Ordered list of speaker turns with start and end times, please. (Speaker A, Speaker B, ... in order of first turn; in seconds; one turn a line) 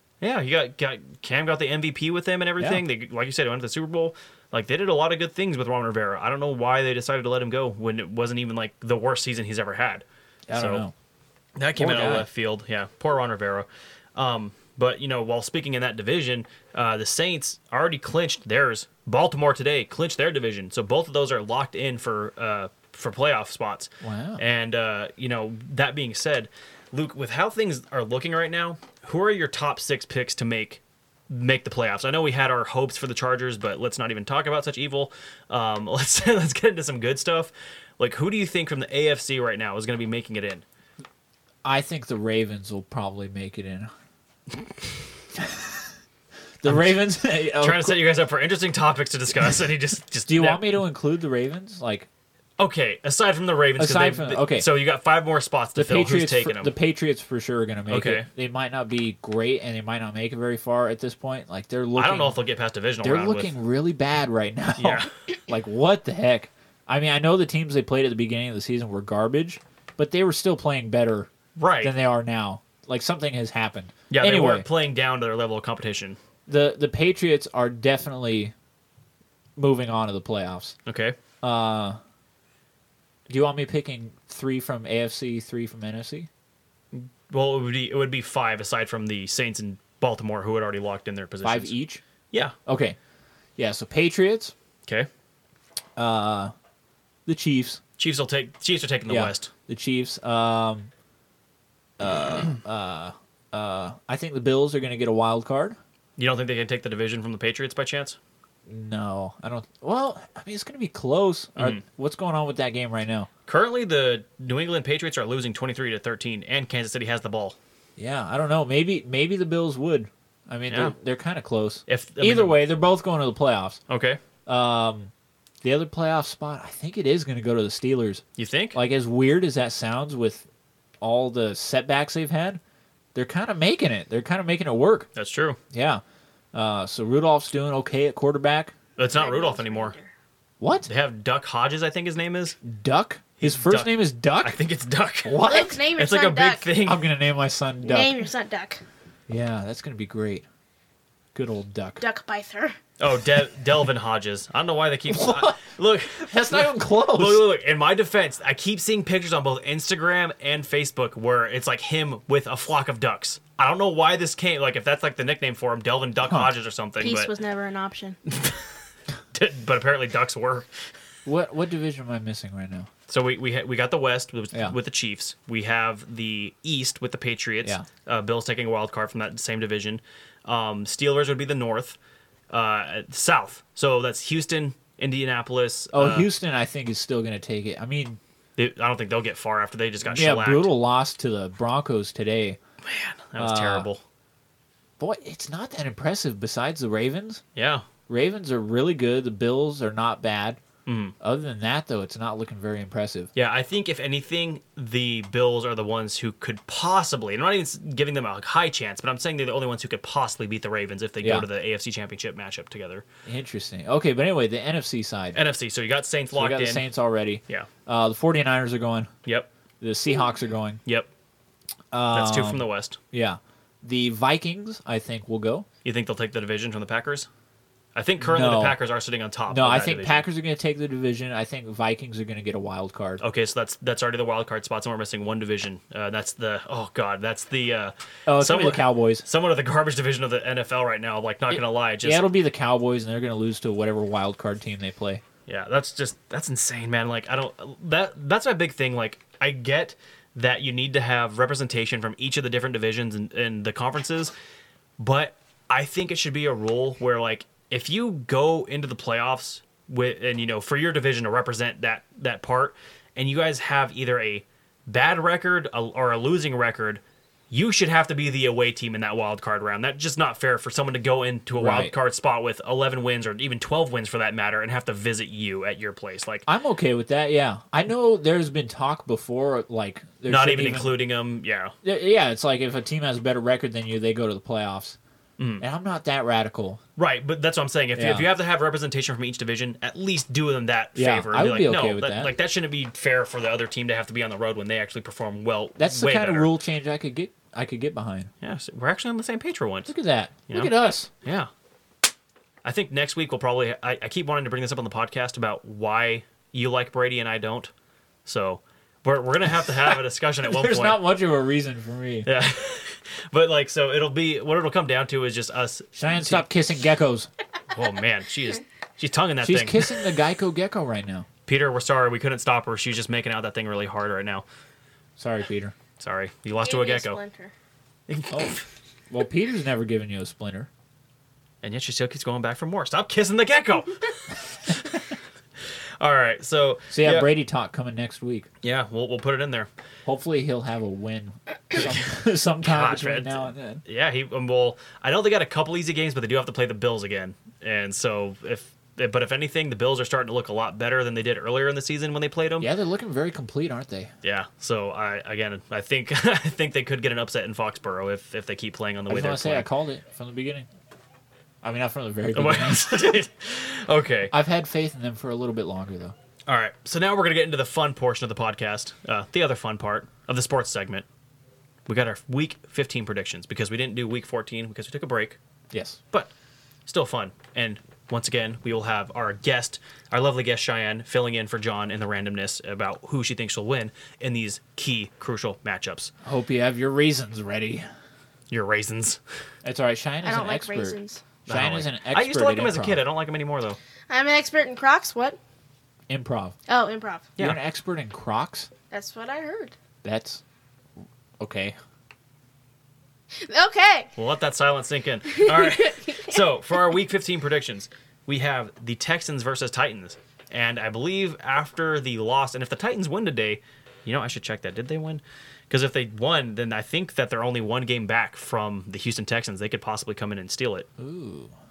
Speaker A: 0.2-10.8
Speaker B: 2.6-2.8
Speaker B: 10.5-10.9
Speaker A: 11.6-40.6
Speaker B: 11.8-12.3
Speaker B: 24.0-24.4
Speaker B: 41.6-43.9
Speaker B: 45.4-45.9
Speaker B: 46.6-48.0
Speaker A: 46.6-50.8
Speaker B: 50.3-52.1
Speaker A: 52.6-56.7
Speaker B: 53.8-54.7
Speaker B: 55.8-62.4
Speaker A: 57.9-58.3
Speaker A: 62.0-63.5
Speaker B: 63.0-71.3
Speaker A: 64.8-65.1
Speaker A: 71.5-71.9
Speaker B: 71.8-74.7
Speaker A: 74.1-76.2
Speaker B: 76.5-78.5
Speaker B: 79.6-80.7
Speaker A: 80.8-81.2
Speaker B: 81.4-82.0
Speaker B: 83.3-86.3
Speaker A: 86.9-91.7
Speaker B: 91.4-92.0
Speaker B: 92.7-93.0
Speaker B: 93.6-94.5
Speaker B: 96.0-96.5
Speaker B: 97.2-97.8
Speaker A: 98.0-99.5
Speaker B: 99.1-100.9
Speaker B: 102.0-105.8
Speaker A: 106.2-108.2
Speaker B: 108.7-113.3
Speaker A: 111.5-111.8
Speaker A: 113.5-117.6
Speaker B: 118.0-123.8
Speaker A: 121.9-122.6
Speaker A: 123.9-124.2
Speaker B: 124.5-125.1
Speaker B: 125.6-128.2
Speaker A: 128.4-128.8
Speaker B: 128.7-130.4
Speaker B: 131.0-132.6
Speaker B: 133.1-135.1
Speaker A: 135.2-135.6
Speaker B: 135.7-136.0
Speaker B: 136.5-138.7
Speaker A: 139.0-139.9
Speaker C: 139.1-140.1
Speaker B: 140.6-140.9
Speaker A: 140.9-142.6
Speaker B: 142.6-144.6
Speaker A: 143.4-147.0
Speaker B: 145.2-145.8
Speaker C: 145.4-146.7
Speaker B: 146.8-148.2
Speaker C: 147.8-148.8
Speaker B: 149.3-150.4
Speaker B: 151.3-152.0
Speaker C: 152.0-152.8
Speaker A: 153.0-167.3
Speaker B: 155.1-157.5
Speaker C: 167.0-168.2
Speaker A: 168.3-168.7
Speaker A: 169.3-170.7
Speaker B: 171.2-172.9
Speaker A: 173.1-182.0
Speaker A: 182.5-186.3
Speaker B: 185.9-188.2
Speaker A: 188.6-190.7
Speaker B: 190.0-192.6
Speaker A: 192.8-194.0
Speaker B: 193.4-193.9
Speaker B: 195.0-197.4
Speaker A: 197.5-197.9
Speaker B: 198.1-200.6
Speaker A: 200.8-201.1
Speaker B: 201.2-203.3
Speaker A: 203.3-213.1
Speaker B: 211.2-211.5
Speaker B: 213.2-215.4
Speaker A: 215.3-216.8
Speaker B: 216.3-219.1
Speaker B: 219.8-220.8
Speaker B: 221.9-225.7
Speaker A: 222.1-223.0
Speaker A: 225.8-227.3
Speaker A: 227.9-230.2
Speaker B: 228.2-228.8
Speaker B: 229.5-233.2
Speaker A: 233.2-242.3
Speaker B: 238.2-239.2
Speaker B: 241.5-245.2
Speaker A: 245.5-254.3
Speaker A: 255.0-276.4
Speaker B: 271.5-271.9
Speaker B: 276.5-280.9
Speaker A: 280.3-281.7
Speaker B: 281.8-285.0
Speaker A: 285.4-285.6
Speaker B: 285.6-286.8
Speaker A: 286.9-296.5
Speaker B: 287.9-288.3
Speaker B: 290.9-292.3
Speaker B: 295.8-298.3
Speaker A: 298.4-299.9
Speaker B: 299.9-301.1
Speaker A: 300.5-301.5
Speaker A: 302.6-307.7
Speaker A: 308.2-311.0
Speaker B: 310.4-312.3
Speaker A: 312.2-316.4
Speaker B: 315.9-317.3
Speaker A: 317.7-319.9
Speaker B: 319.4-321.3
Speaker A: 321.4-324.4
Speaker B: 325.2-325.7
Speaker A: 326.0-327.2
Speaker C: 326.6-327.5
Speaker A: 328.1-328.6
Speaker B: 329.1-330.7
Speaker A: 331.6-335.1
Speaker A: 336.0-337.3
Speaker B: 336.9-338.5
Speaker A: 338.6-339.7
Speaker B: 340.0-343.8
Speaker A: 342.6-352.7
Speaker B: 352.6-354.1
Speaker A: 354.2-359.6
Speaker B: 359.1-360.7
Speaker B: 361.6-363.2
Speaker A: 362.3-364.3
Speaker B: 364.3-366.1
Speaker A: 366.5-371.1
Speaker A: 371.9-375.4
Speaker B: 375.7-376.0
Speaker A: 376.9-386.1
Speaker B: 386.2-387.9
Speaker A: 388.5-389.2
Speaker B: 389.6-393.0
Speaker C: 390.2-391.2
Speaker A: 391.5-393.8
Speaker C: 394.1-395.4
Speaker B: 396.1-396.6
Speaker C: 396.7-397.3
Speaker B: 397.4-398.7
Speaker C: 398.9-399.8
Speaker B: 400.0-400.4
Speaker B: 401.4-401.8
Speaker C: 403.4-404.1
Speaker A: 404.2-420.9
Speaker C: 405.3-406.4
Speaker B: 421.0-421.5